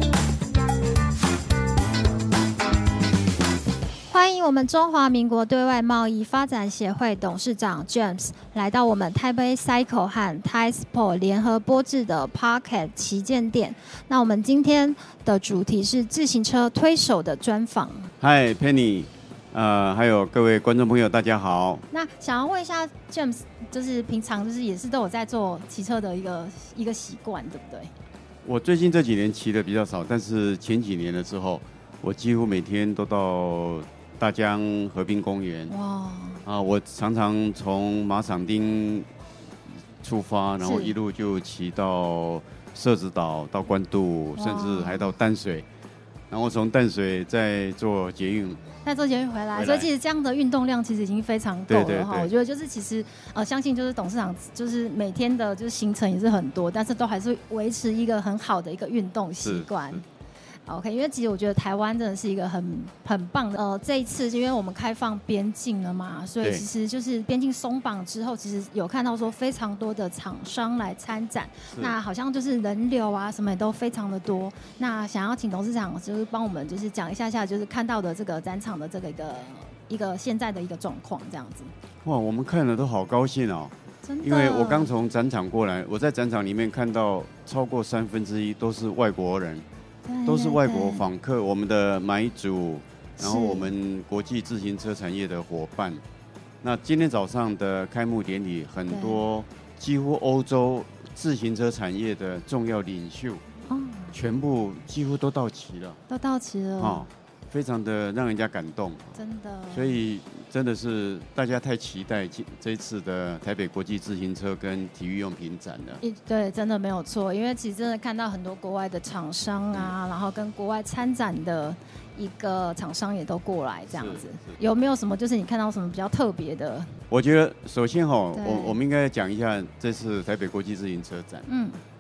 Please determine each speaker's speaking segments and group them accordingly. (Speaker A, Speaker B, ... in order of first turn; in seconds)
Speaker A: 4.1-18.1, 21.9-27.9, 35.7-36.4, 40.6-41.0, 44.4-45.1, 48.8-60.0, 60.7-81.7, 84.0-84.9, 90.0-91.1, 93.2-93.7, 98.9-99.2, 103.7-104.2, 106.1-107.1, 109.2-110.0, 116.0-127.0, 128.3-128.8, 131.5-131.8
Speaker B: 18.2-21.9, 28.4-35.7, 36.5-39.1, 40.0-45.7, 46.3-48.6, 49.5-49.9, 51.7-52.3, 59.4-60.0, 71.7-72.0, 82.0-89.7, 90.3-96.0, 96.6-103.4, 104.1-106.0, 106.8-109.2, 109.7-116.0, 123.9-124.6, 127.1-131.5